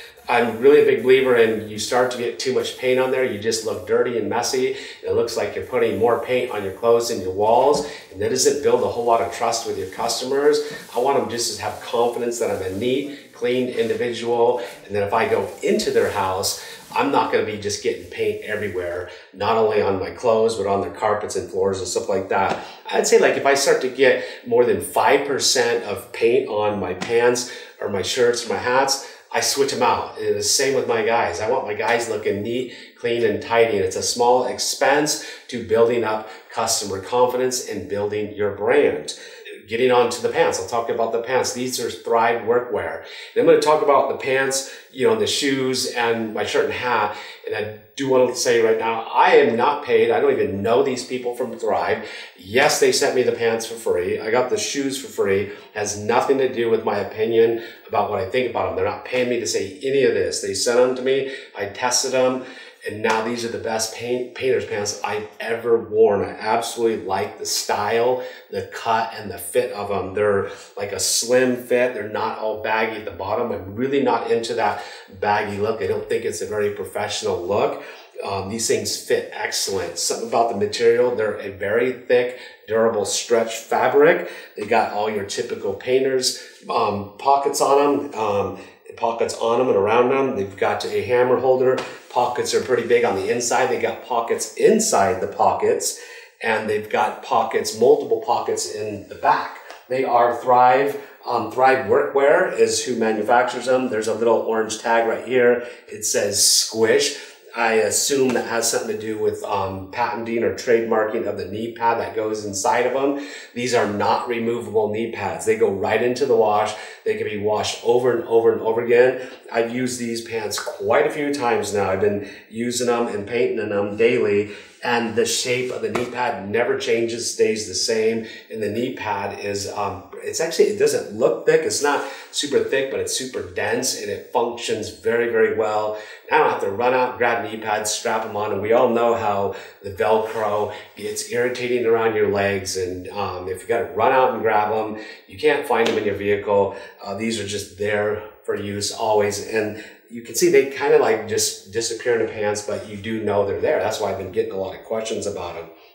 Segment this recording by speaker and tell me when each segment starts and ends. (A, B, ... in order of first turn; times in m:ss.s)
0:00.3-2:35.7 A